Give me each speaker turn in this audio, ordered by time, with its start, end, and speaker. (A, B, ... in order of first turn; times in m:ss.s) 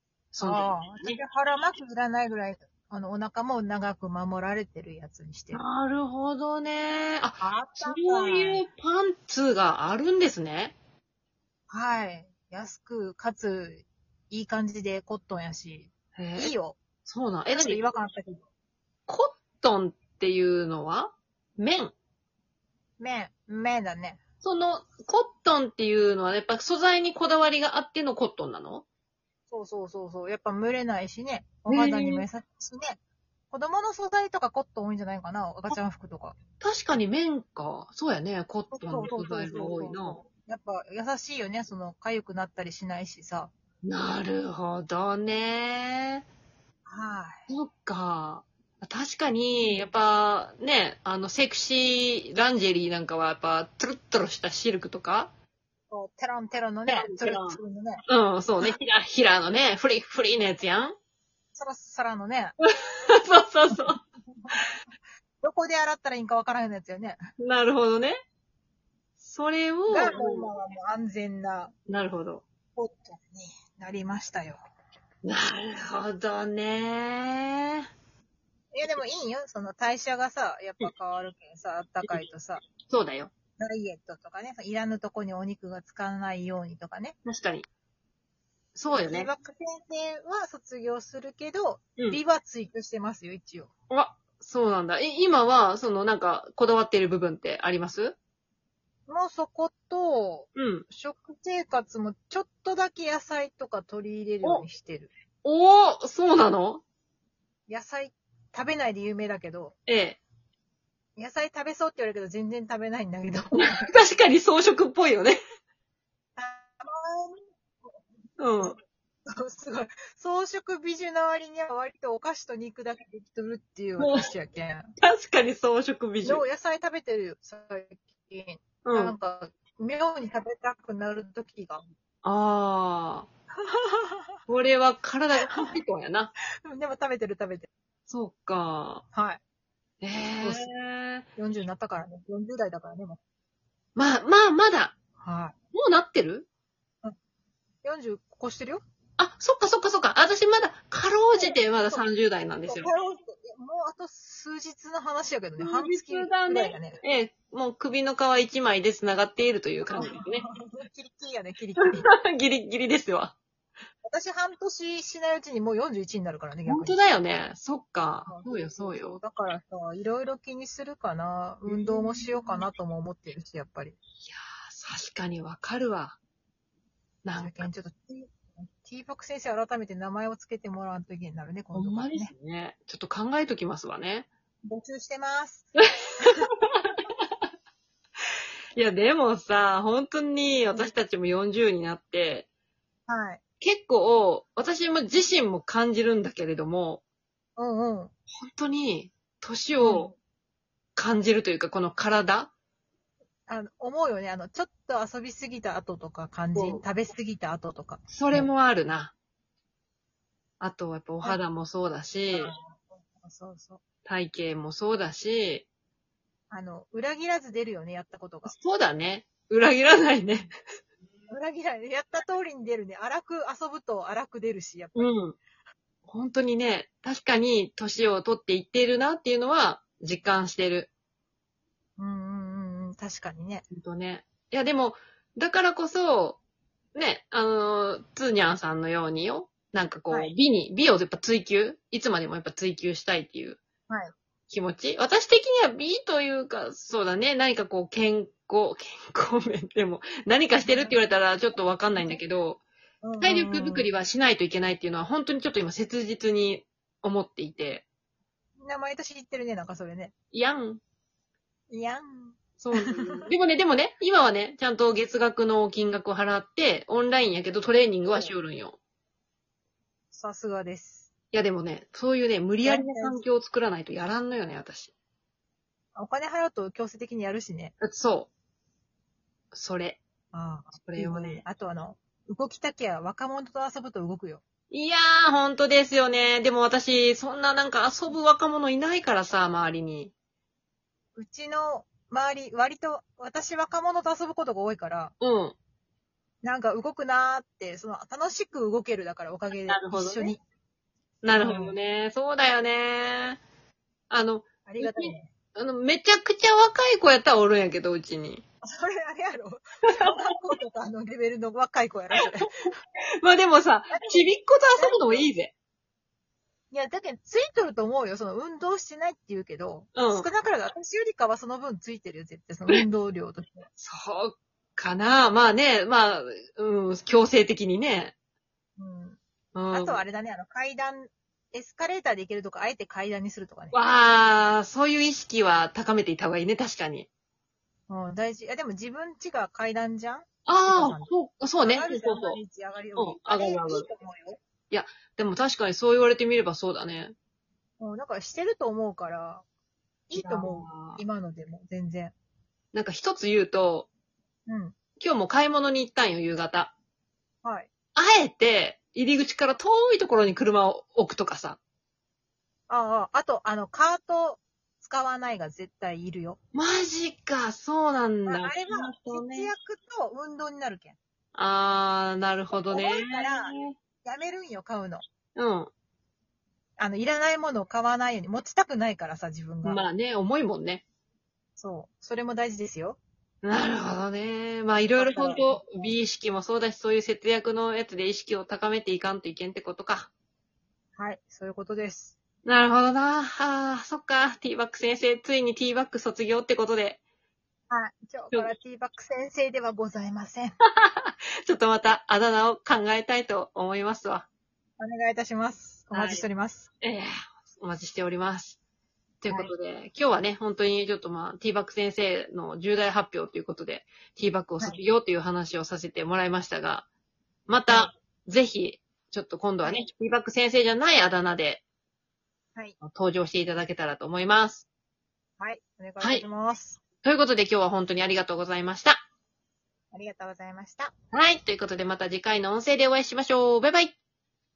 0:00.3-0:01.2 A
0:00.4-0:05.6 B
0:05.5-0:10.8 A
0:07.4-0:08.6 B
0:11.7-0:16.8 B
0:16.2-0:16.5 A
0:17.0-0:17.8 A
0:17.5-0:18.5 B
0:19.1-0:21.9 A
0:23.0-0:24.2 B
0:24.4-0:28.8 A
0:29.5-0:33.0 B
0:31.7-0:32.3 A
0:33.5-0:36.4 B
0:36.6-0:40.2 A
0:38.7-0:43.5 B
0:43.8-0:46.3 A
0:46.8-0:47.5 B
0:47.5-0:55.3 A
0:49.6-0:49.9 B
0:55.9-0:58.0 B
0:56.9-1:01.0 A
1:01.5-1:02.6 B
1:03.1-1:04.0 A
1:03.8-1:04.5 B
1:05.4-1:07.2 B
1:07.4-1:08.2 A
1:09.2-1:10.5 A
1:09.9-1:11.7 B
1:11.9-1:12.4 A
1:12.8-1:14.6 B
1:15.2-1:17.9 A
1:18.7-1:22.6 B
1:22.8-1:23.3 A
1:23.6-1:27.2 B
1:27.2-1:27.7 A
1:28.7-1:29.3 A
1:28.9-1:33.7 B
1:33.9-1:38.2 A
1:39.1-1:45.1 B
1:40.6-1:40.8 A
1:45.4-1:46.8 A
1:47.7-1:49.8 B
1:49.9-1:50.2 A
1:51.2-1:53.9 B
1:53.6-1:55.4 A
1:56.4-1:57.4 B
1:58.4-1:58.8 A
1:59.3-2:04.9 B
2:05.0-2:06.4 A
2:06.2-2:11.8 B
2:08.8-2:09.2 A
2:12.2-2:13.3 A
2:13.6-2:14.4 B
2:14.5-2:16.3 A
2:15.4-2:15.7 B
2:16.6-2:17.7 B
2:18.1-2:19.0 A
2:19.1-2:19.4 B
2:20.0-2:21.3 A
2:20.4-2:20.7 B
2:21.4-2:23.2 B
2:24.0-2:25.0 A
2:25.2-2:25.5 B
2:25.7-2:26.5 A
2:27.8-2:28.8 B
2:29.2-2:32.9 A
2:31.3-2:32.0 B
2:32.7-2:37.0 B
2:35.6-2:40.4 A
2:39.9-2:42.1 B
2:41.8-2:43.4 A
2:44.0-2:47.0 B
2:46.7-2:49.2 A
2:48.3-2:54.0 B
2:51.7-2:52.6 A
2:54.2-2:56.2 A
2:57.2-2:57.7 A
2:57.4-3:02.3 B
3:01.7-3:04.3 A
3:04.7-3:06.5 B
3:06.6-3:07.0 A
3:08.8-3:12.5 A
3:13.1-3:13.4 B
3:13.6-3:17.0 A
3:17.6-3:18.1 B
3:18.4-3:20.1 A
3:19.8-3:20.2 B
3:21.0-3:22.5 A
3:23.5-3:28.5 B
3:26.5-3:26.8 A
3:28.1-3:29.1 A
3:30.6-3:32.5 A
3:32.3-3:33.8 B
3:34.0-3:35.7 A
3:36.5-3:38.5 B
3:38.5-3:40.5 A
3:41.3-3:45.1 B
3:45.0-3:45.4 A
3:46.1-3:50.9 A
3:52.0-3:53.7 B
3:53.7-3:56.4 A
3:57.0-4:03.6 A
4:04.5-4:12.6 A
4:10.6-4:11.0 B
4:13.0-4:13.9 B
4:13.2-4:17.9 A
4:18.6-4:20.1 B
4:20.3-4:20.8 A
4:21.7-4:23.2 B
4:22.6-4:28.8 A
4:30.1-4:31.1 B
4:31.3-4:34.9 A
4:32.6-4:33.2 B
4:35.9-4:37.7 B
4:37.8-4:38.3 A
4:39.5-4:40.0 A
4:40.3-4:44.4 B
4:40.8-4:41.4 A
4:44.7-4:50.1 A
4:51.2-4:55.1 B
4:55.2-4:55.6 A
4:56.4-5:00.4 B
4:59.7-5:00.3 A
5:01.2-5:03.4 A
5:01.3-5:01.8 B
5:04.1-5:08.4 A
5:04.6-5:05.3 B
5:08.6-5:12.5 B
5:13.2-5:15.5 A
5:13.9-5:15.2 B
5:16.7-5:23.7 B
5:19.9-5:20.3 A
5:23.8-5:28.1 A
5:28.8-5:29.2 B
5:29.5-5:30.0 A
5:29.7-5:34.2 B
5:33.7-5:37.1 A
5:37.9-5:44.4 B
5:40.4-5:42.4 A
5:43.0-5:43.9 A
5:44.7-5:47.1 A
5:47.8-5:49.4 B
5:50.1-5:52.1 B
5:50.2-5:51.0 A
5:52.7-5:53.9 A
5:54.5-5:54.8 B
5:55.0-5:56.7 A
5:57.4-5:57.7 B
5:57.9-6:01.6 A
6:02.7-6:06.4 B
6:06.5-6:09.5 A
6:08.3-6:11.0 B
6:11.4-6:13.8 A
6:12.6-6:15.0 B
6:15.4-6:15.7 A
6:16.8-6:19.8 B
6:19.6-6:20.8 A
6:21.6-6:23.0 B
6:23.4-6:30.1 A
6:25.0-6:25.6 B
6:31.0-6:32.2 B
6:32.4-6:37.0 A
6:37.7-6:40.6 B
6:40.8-6:44.2 A
6:44.8-6:46.7 B
6:45.9-6:46.2 A
6:46.8-6:48.6 A
6:49.2-6:56.9 A
6:57.5-7:01.6 A
7:02.8-7:04.7 A
7:05.4-7:06.8 B
7:07.0-7:09.0 A
7:09.9-7:10.9 B
7:11.1-7:14.0 A